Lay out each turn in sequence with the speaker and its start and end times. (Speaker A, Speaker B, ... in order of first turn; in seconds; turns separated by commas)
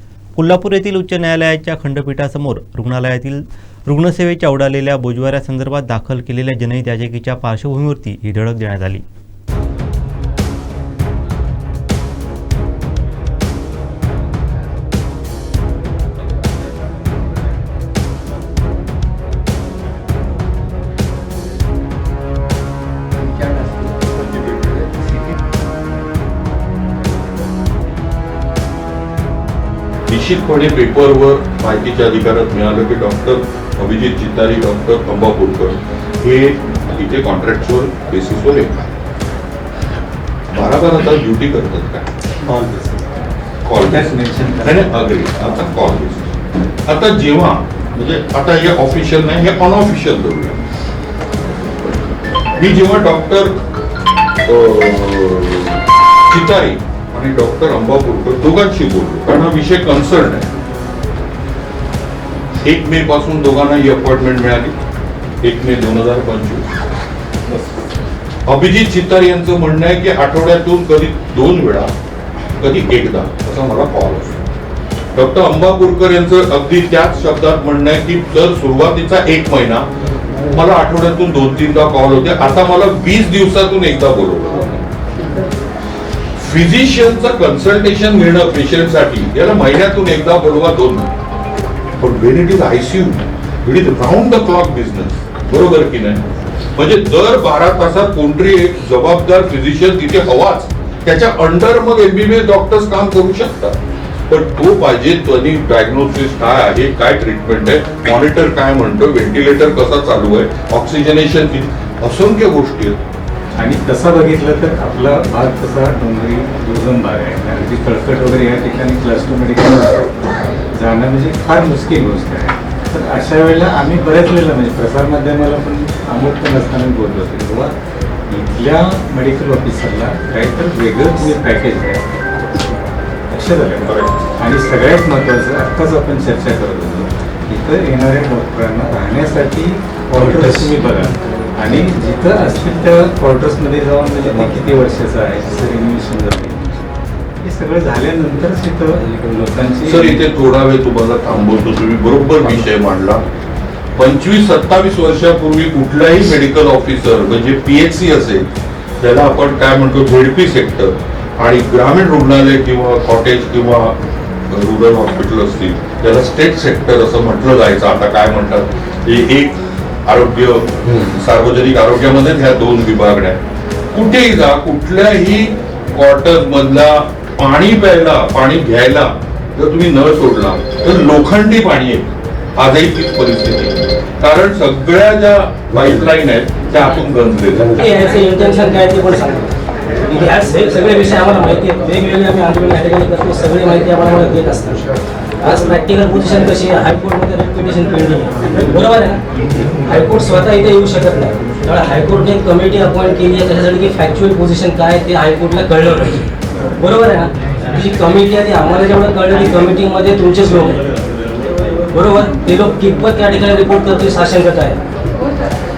Speaker A: 0.3-9.0, Speaker B: 30.1-39.0, Speaker B: 40.5-42.1, Speaker C: 42.5-43.2, Speaker B: 43.6-50.6, Speaker C: 43.8-44.9, Speaker B: 52.6-53.5, Speaker B: 54.5-60.5, Speaker B: 62.6-64.7, Speaker B: 65.4-66.7, Speaker B: 68.5-71.9, Speaker B: 72.6-74.4, Speaker B: 75.1-79.9, Speaker B: 80.5-84.8, Speaker B: 86.4-91.1, Speaker B: 92.0-96.2, Speaker B: 96.8-103.8, Speaker B: 104.3-113.0, Speaker C: 113.5-120.2, Speaker C: 120.7-127.7, Speaker C: 128.3-132.1, Speaker C: 133.3-133.9, Speaker B: 133.8-134.3, Speaker C: 134.4-146.9, Speaker C: 147.4-150.2, Speaker B: 149.9-153.2, Speaker B: 153.9-158.5, Speaker B: 159.0-164.0, Speaker B: 164.5-173.4, Speaker B: 173.9-187.8, Speaker D: 187.8-189.5, Speaker D: 190.1-194.8, Speaker D: 195.4-199.2, Speaker D: 199.8-210.8, Speaker D: 211.9-214.8